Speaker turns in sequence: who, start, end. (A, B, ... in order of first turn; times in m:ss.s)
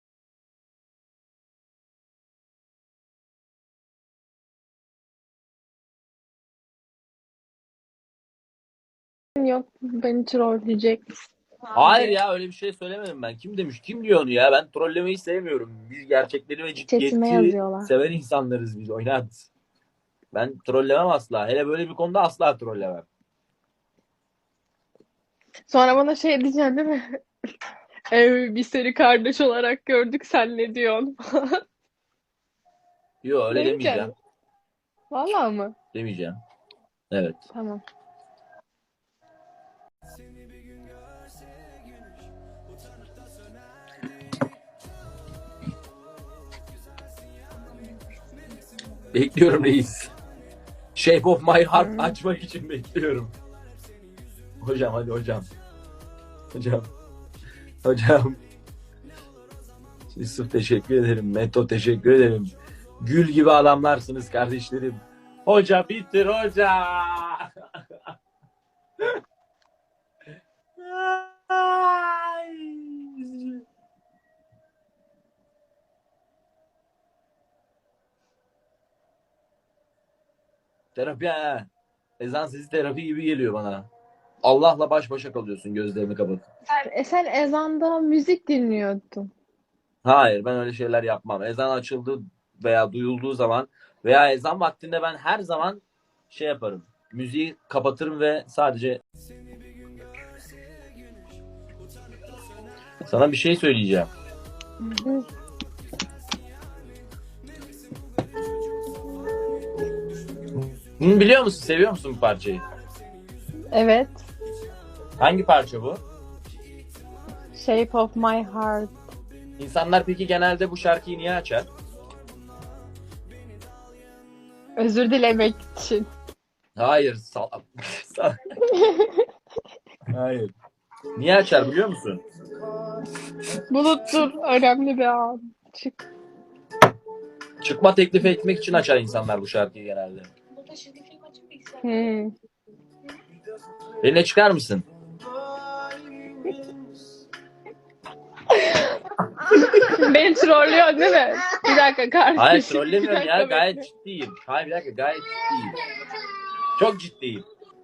0:09.4-0:11.2 A
0:11.7-0:12.1 A
0:11.7-0:19.4 B
0:16.9-0:17.9 A
0:20.3-0:23.0 B
0:25.7-0:27.2 A
0:28.1-0:31.6 A
0:33.2-0:34.1 B
0:33.5-0:34.1 A
0:35.1-0:35.8 A
0:35.9-0:36.4 B
0:37.1-0:37.4 B
0:37.5-0:37.8 A
0:49.1-0:50.1 B
0:50.9-0:53.3 B
0:51.7-0:52.2 A
0:54.6-0:55.5 B
0:56.5-0:56.9 B
0:57.8-0:58.4 B
1:00.1-1:07.8 B
1:10.8-1:13.6 B
1:20.9-1:23.9 B
1:24.4-1:26.4 B
1:26.7-1:29.3 A
1:30.0-1:39.0 B
1:43.0-1:44.1 B
1:44.8-1:45.2 A
1:51.0-1:52.6 B
1:53.7-1:54.2 A
1:55.2-1:56.0 B
1:57.5-1:58.9 A
1:59.6-2:01.7 B
2:04.8-2:06.0 A
2:06.8-2:08.4 B
2:08.6-2:09.3 A
2:10.1-2:10.5 B
2:11.1-2:12.2 B
2:13.7-2:16.0 A
2:17.6-2:20.3 B
2:20.6-2:22.3 A
2:24.0-2:24.8 B
2:28.5-2:29.0 A
2:29.5-2:33.9 A
2:32.4-2:35.8 B
2:36.8-2:37.4 B